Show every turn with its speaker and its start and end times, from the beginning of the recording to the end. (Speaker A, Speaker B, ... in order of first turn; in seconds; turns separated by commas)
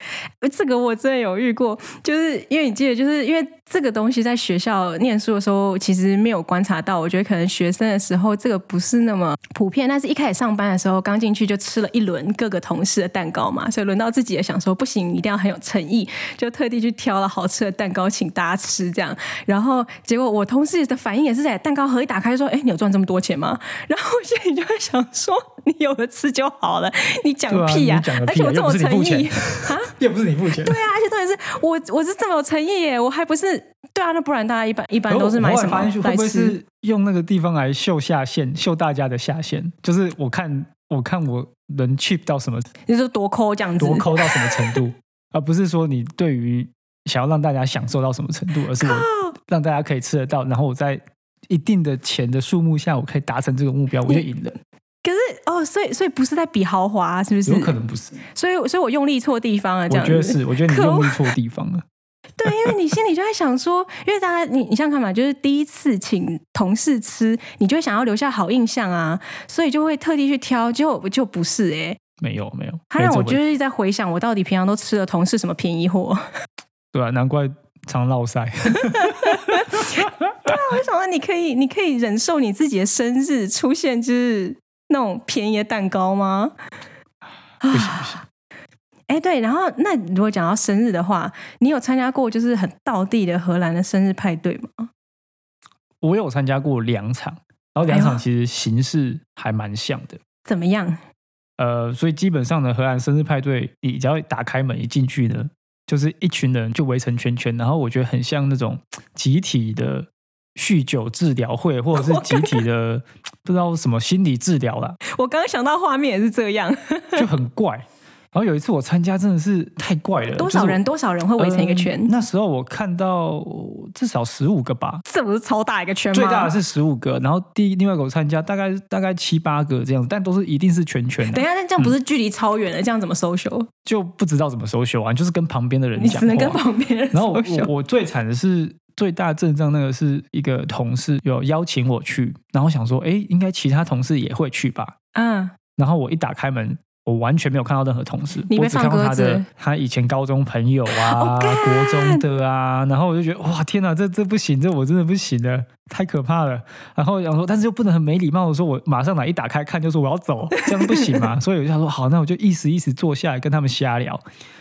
Speaker A: 0.4-29.9, Speaker B: 27.5-30.8, Speaker A: 30.6-36.5, Speaker B: 35.1-42.7, Speaker A: 42.9-44.8, Speaker B: 43.8-54.5, Speaker A: 48.8-49.3, Speaker A: 55.0-57.7, Speaker B: 57.5-58.2, Speaker A: 58.3-61.2, Speaker B: 59.9-61.8, Speaker A: 62.4-72.0, Speaker B: 72.2-73.4, Speaker A: 72.9-76.2, Speaker B: 76.9-80.5, Speaker A: 78.8-86.5, Speaker A: 87.6-88.2, Speaker B: 87.7-88.2, Speaker A: 89.1-94.9, Speaker B: 96.0-100.2, Speaker A: 97.9-98.2, Speaker A: 100.5-101.0, Speaker B: 101.6-115.0, Speaker A: 112.0-112.6, Speaker A: 115.1-117.2, Speaker B: 117.2-120.8, Speaker A: 120.4-122.1, Speaker B: 121.4-125.0, Speaker A: 125.1-126.5, Speaker B: 126.1-131.9, Speaker A: 131.3-133.7, Speaker B: 133.8-136.6, Speaker A: 136.0-137.7, Speaker B: 137.1-144.9, Speaker A: 145.1-145.5, Speaker B: 145.8-164.2, Speaker A: 148.5-149.5, Speaker A: 150.9-152.2, Speaker A: 160.6-161.1